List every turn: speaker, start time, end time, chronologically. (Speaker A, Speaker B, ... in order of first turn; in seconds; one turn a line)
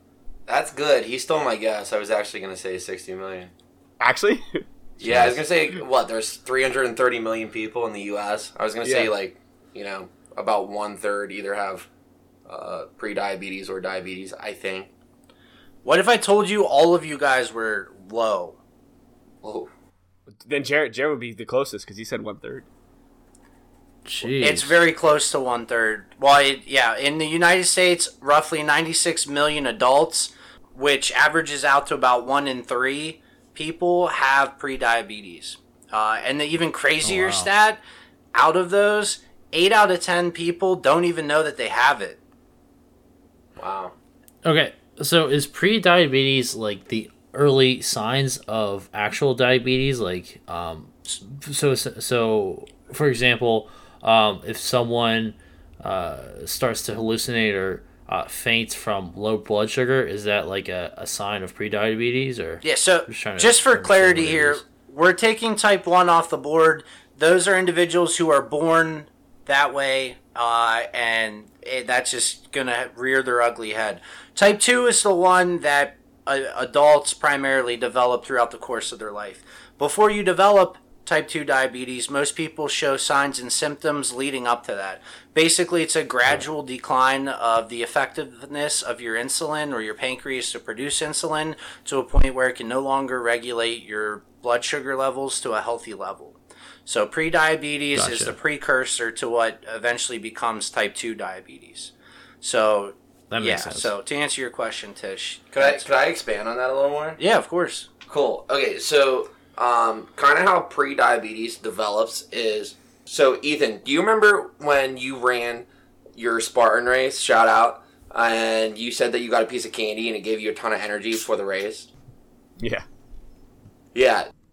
Speaker A: 0.5-3.5
Speaker B: 4.0-4.7
Speaker A: 5.0-11.9
Speaker C: 5.0-5.4
Speaker B: 8.8-9.1
Speaker A: 12.5-14.9
Speaker D: 15.8-18.6
Speaker A: 19.4-19.7
Speaker B: 20.3-22.7
Speaker C: 24.1-24.7
Speaker D: 24.4-37.8
Speaker C: 37.0-37.5
Speaker D: 38.4-42.2
Speaker A: 43.6-43.9
Speaker C: 44.5-64.6
Speaker D: 62.6-105.9
Speaker C: 98.0-98.3
Speaker C: 103.3-103.9
Speaker A: 105.6-107.2
Speaker D: 107.2-107.9
Speaker A: 108.1-121.9
Speaker B: 122.6-122.8
Speaker A: 123.9-124.3